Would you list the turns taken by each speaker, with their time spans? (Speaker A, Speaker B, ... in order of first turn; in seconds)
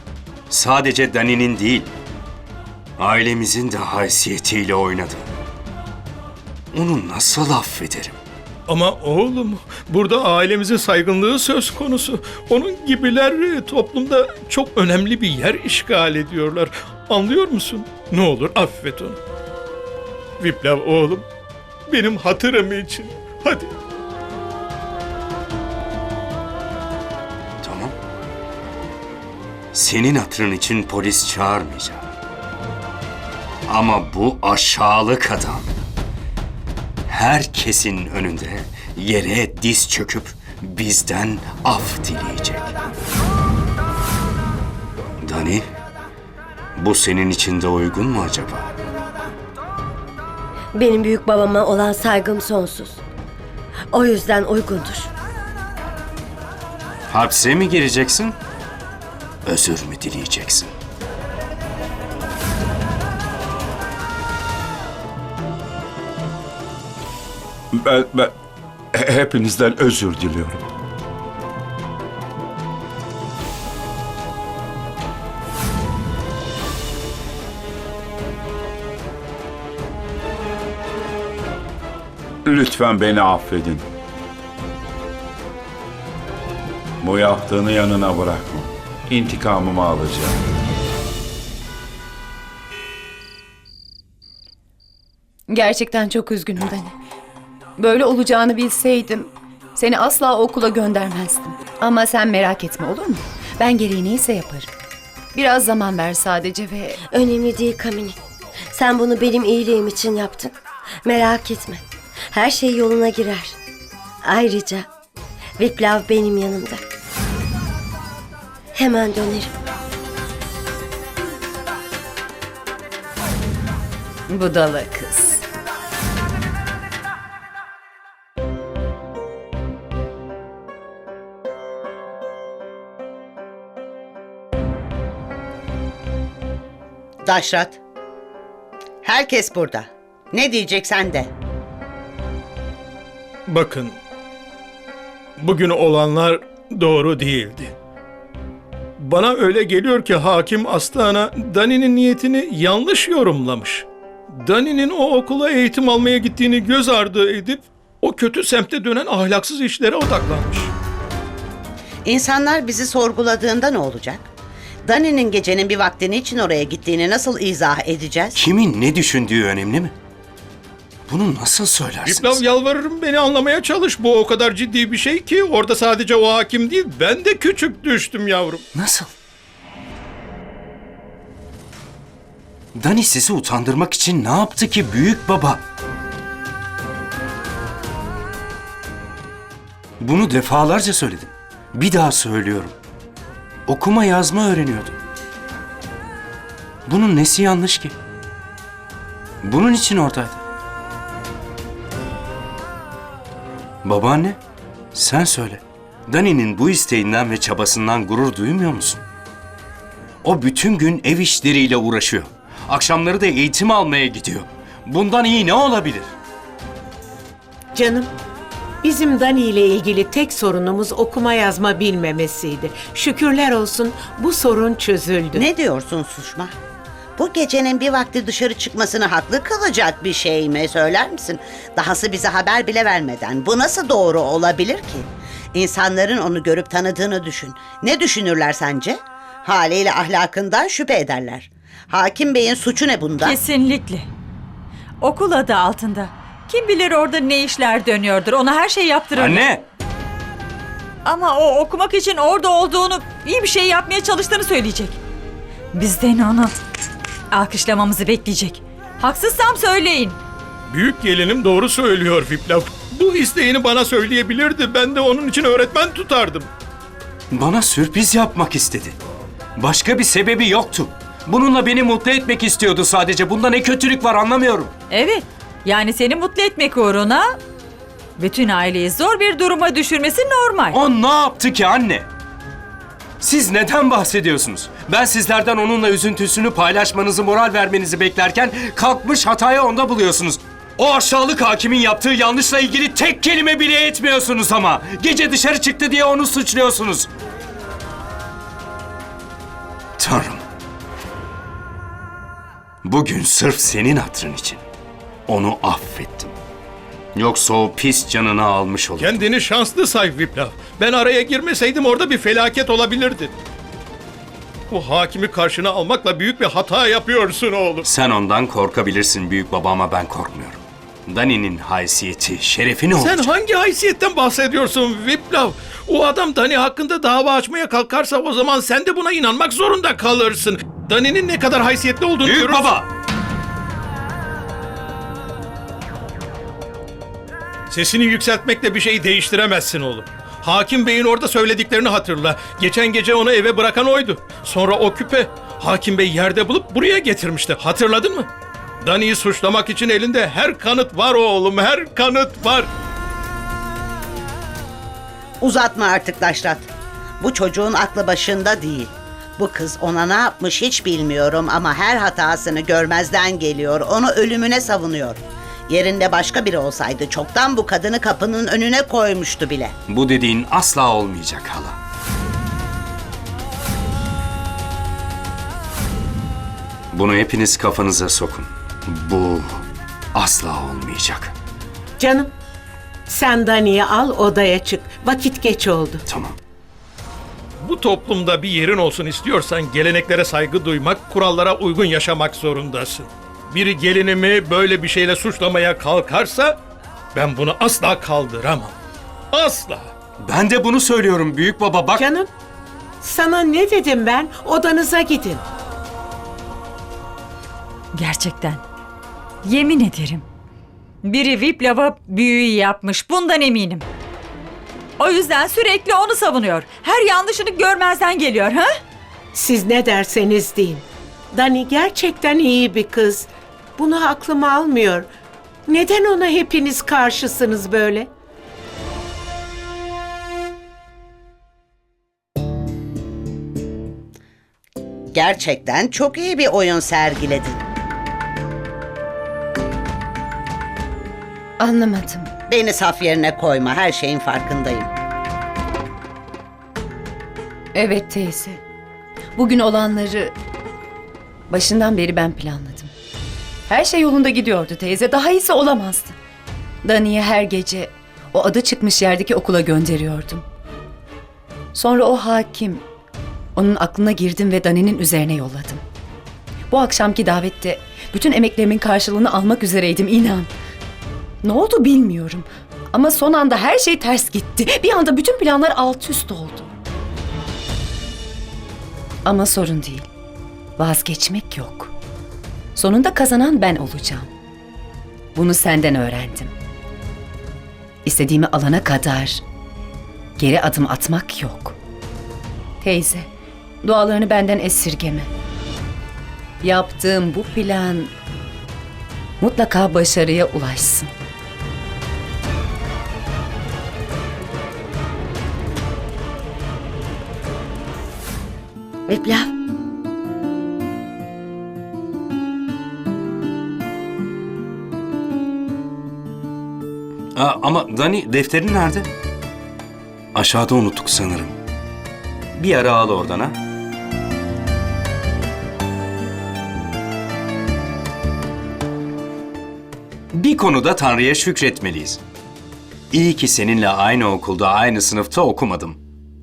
Speaker A: 0.5-1.9, 3.0-5.3, 6.7-8.2, 27.6-27.9, 29.7-32.1, 33.7-35.7, 37.1-42.7, 45.2-45.6, 46.8-48.7, 57.1-58.4, 59.5-60.7, 168.3-169.9, 171.1-172.4, 178.7-179.1, 182.7-185.6, 190.0-192.7, 193.7-195.0, 196.9-197.9, 199.4-200.4, 203.8-204.4, 204.9-209.0, 210.2-216.1, 249.1-249.6, 267.3-269.0, 269.6-274.7, 280.7-282.1, 283.2-297.1, 300.0-300.4, 302.8-304.6, 305.3-306.3, 307.1-309.2, 317.8-323.3, 332.2-332.9, 369.9-371.8, 376.9-379.6, 380.1-381.3, 386.1-386.4, 400.2-402.1, 517.3-519.1, 520.3-521.5, 522.5-523.6, 530.3-532.2, 533.1-536.0
Speaker B: 8.7-19.2, 20.4-21.2, 21.9-23.7, 143.5-143.9, 145.4-147.7, 149.0-153.8, 154.4-160.7, 172.0-178.6, 260.7-266.5, 309.0-313.3, 314.7-317.8, 322.9-332.7, 337.7-348.3, 348.8-352.7, 387.6-396.6, 397.1-398.7, 399.3-399.9
Speaker C: 50.7-53.0, 53.9-55.1, 107.1-108.2, 108.7-113.6, 114.2-114.9, 115.6-116.8, 118.7-119.5, 509.1-509.5
Speaker D: 67.7-68.3, 68.9-70.6, 82.4-83.8, 87.0-90.4
Speaker E: 95.5-96.9, 97.8-104.7, 105.3-107.0, 124.3-125.4, 441.6-442.3, 447.7-448.6, 449.4-450.3, 451.5-452.9, 453.7-456.2, 456.8-460.4, 461.7-462.8, 463.6-465.8, 466.7-470.5, 471.4-476.7, 479.2-480.1, 480.8-481.9, 482.8-484.3, 485.3-486.5, 488.0-489.4, 490.4-491.8, 492.8-493.3, 493.8-495.3, 496.6-498.1, 499.4-501.1
Speaker F: 137.2-137.8, 139.0-141.3, 162.0-164.3, 164.8-168.4, 225.3-226.5, 227.2-243.4, 355.4-356.7, 357.2-369.7, 435.1-437.6, 442.5-444.9
Speaker G: 217.7-218.1, 218.8-225.4, 382.0-382.3, 383.1-386.0, 402.0-402.3, 403.0-405.4, 419.3-425.1, 425.7-428.1
Speaker H: 243.2-244.1, 245.0-249.5, 251.0-255.0, 255.7-256.6, 257.3-260.2, 274.9-277.4, 278.2-280.8, 407.9-408.6, 409.4-410.2, 411.0-413.8, 415.0-418.7